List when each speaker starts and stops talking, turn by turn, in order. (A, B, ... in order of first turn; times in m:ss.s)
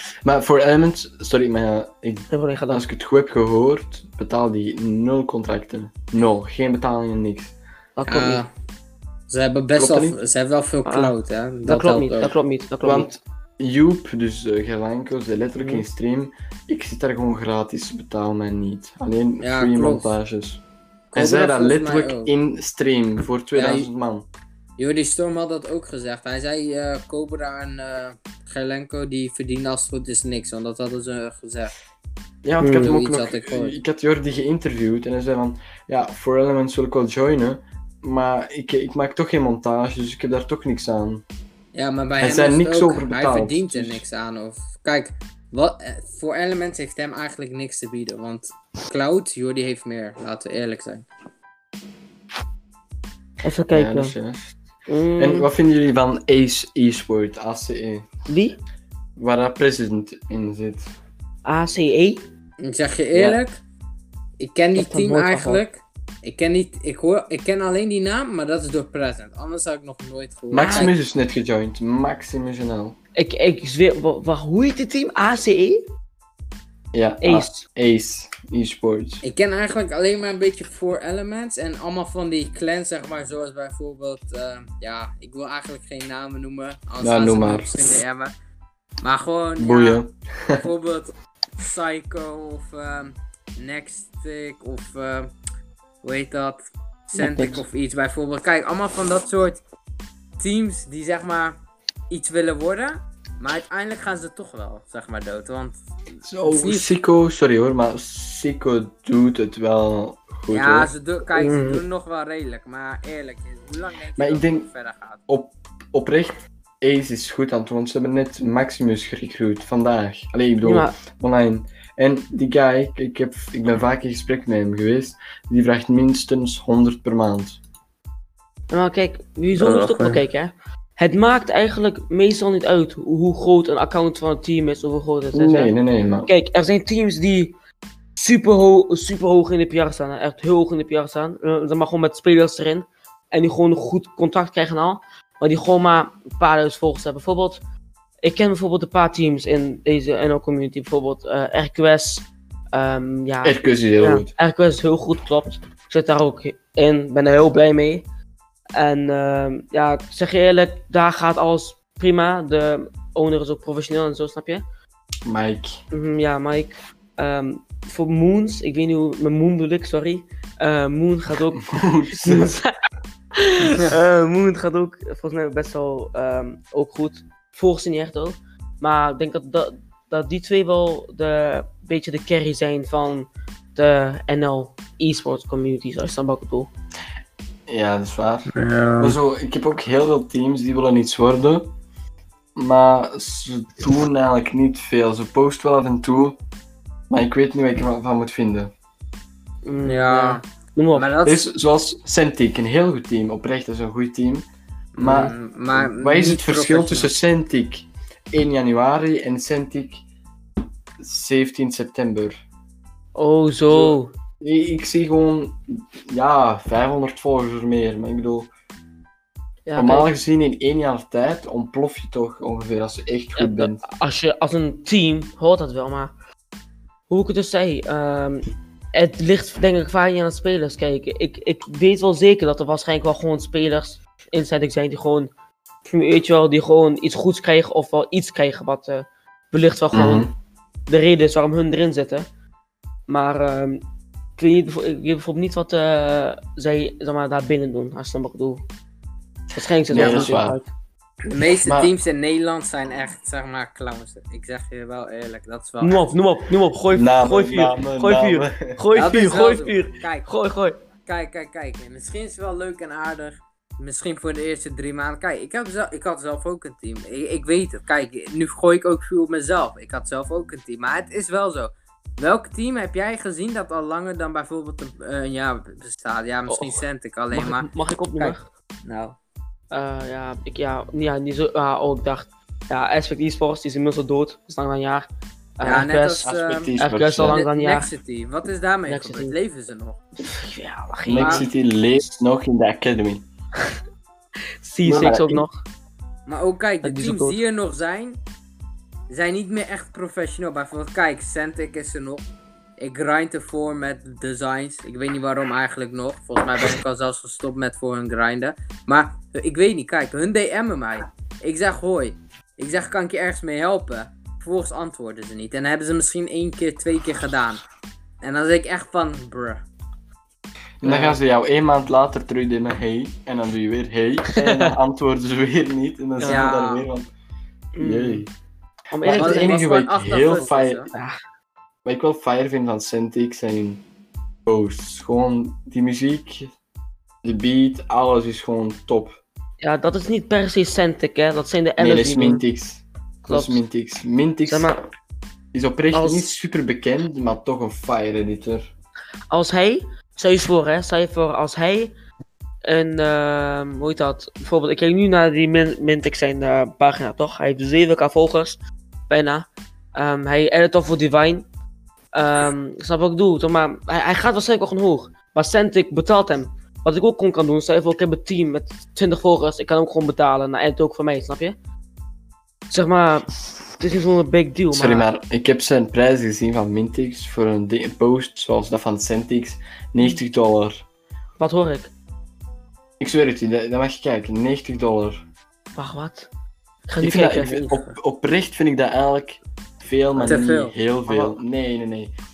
0:00.2-0:07.5 A
0:02.3-0:02.8 B
0:08.0-0:08.4 B
0:08.1-0:08.5 C
0:09.3-0:12.3 C
0:09.8-0:10.2 A
0:10.9-0:11.1 B
0:11.6-0:13.1 B
0:12.8-0:20.6 A
0:15.6-0:15.8 B
0:19.4-0:20.1 C
0:21.1-0:22.3 C
0:21.1-0:24.3 A
0:23.5-0:23.9 C
0:24.8-0:31.7 C
0:32.4-0:41.2 A
0:32.6-0:32.9 B
0:32.8-0:33.8 C
0:41.7-0:51.1 C
0:42.2-0:44.0 A
0:53.4-0:54.2 B
0:53.7-0:54.6 A
0:54.9-0:55.5 B
0:55.2-0:58.0 A
0:58.3-0:58.6 B
0:59.2-1:00.9 A
1:01.5-1:02.2 B
1:02.6-1:03.6 C
1:03.1-1:03.4 A
1:04.4-1:10.9 C
1:04.8-1:05.6 B
1:10.5-1:13.0 A
1:10.6-1:10.9 B
1:13.2-1:15.8 B
1:16.9-1:19.2 A
1:17.2-1:17.7 B
1:19.2-1:28.3 C
1:27.0-1:27.9 A
1:29.0-1:35.3 C
1:29.6-1:30.7 A
1:36.0-1:39.6 C
1:37.2-1:37.6 A
1:40.4-1:41.6 C
1:42.1-1:45.8 C
1:46.2-1:50.9 A
1:46.4-1:46.9 C
1:50.5-1:55.2 C
1:51.4-1:51.8 B
1:54.2-1:54.7 A
1:55.3-2:07.6 A
2:00.6-2:00.9 B
2:08.7-2:17.5 B
2:09.6-2:10.2 A
2:15.3-2:16.3 A
2:18.2-2:27.6 B
2:28.2-2:38.0 B
2:33.4-2:34.3 A
2:38.8-2:44.6 B
2:45.2-2:45.8 A
2:45.9-2:52.7 B
2:51.7-2:52.6 A
2:53.3-3:06.7 B
3:07.7-3:11.7 A
3:08.5-3:09.2 C
3:12.6-3:16.4 A
3:17.1-3:18.7 A
3:19.6-3:21.1 B
3:19.8-3:20.4 C
3:20.9-3:21.5 C
3:21.2-3:24.5 A
3:25.0-3:27.1 C
3:25.0-3:30.0 A
3:31.0-3:32.4 A
3:33.1-3:34.1 B
3:33.7-3:38.5 A
3:39.7-3:40.1 B
3:39.8-3:43.8 A
3:43.4-3:46.1 B
3:47.1-3:55.3 B
3:55.8-4:00.3 B
3:59.9-4:00.3 A
4:00.9-4:02.2 B
4:03.1-4:03.8 B
4:04.4-4:08.6 B
4:09.5-4:10.7 B
4:09.9-4:10.6 A
4:10.0-4:10.3 C
4:11.3-4:16.1 C
4:11.5-4:11.9 A
4:15.8-4:20.8 B
4:17.0-4:18.8 A
4:18.9-4:20.3 C
4:21.0-4:39.2 C
4:36.5-4:38.5 B
4:39.7-4:45.1 B
4:45.6-4:46.2 B
4:45.6-4:46.7 C
4:46.2-4:47.4 A
4:46.8-4:47.9 B
4:47.2-4:50.0 C
4:48.9-4:49.4 B
4:50.2-4:51.5 B
4:51.1-4:53.2 A
4:51.2-4:51.4 C
4:54.6-4:55.6 B
4:54.8-4:55.4 A
4:56.3-4:58.2 C
4:56.8-4:57.4 B
4:59.1-5:02.2 C
5:02.8-5:17.6 C
5:18.2-5:19.6 C
5:20.8-5:27.1 A
5:20.8-5:21.2 B
5:24.4-5:24.7 B
5:26.2-5:26.5 B
5:26.2-5:26.8 C
5:27.8-5:28.2 B
5:27.8-5:28.3 A
5:28.9-5:29.6 B
5:29.0-5:30.8 A
5:29.2-5:30.9 C
5:30.9-5:31.2 B
5:31.8-5:33.8 A
5:34.5-5:36.5 A
5:37.2-5:39.2 A
5:39.6-5:42.4 B
5:41.8-5:44.7 A
5:43.2-5:43.6 B
5:44.5-5:44.8 B
5:45.5-5:48.7 A
5:45.9-5:46.3 B
5:49.3-5:51.9 B
5:52.7-6:01.5 B
6:02.1-6:11.6 B
6:12.7-6:15.1 B
6:14.7-6:20.8 A
6:21.4-6:21.9 B
6:23.0-6:25.2 A
6:25.8-6:26.3 B
6:26.9-6:27.9 B
6:27.0-6:32.1 A
6:30.2-6:30.8 C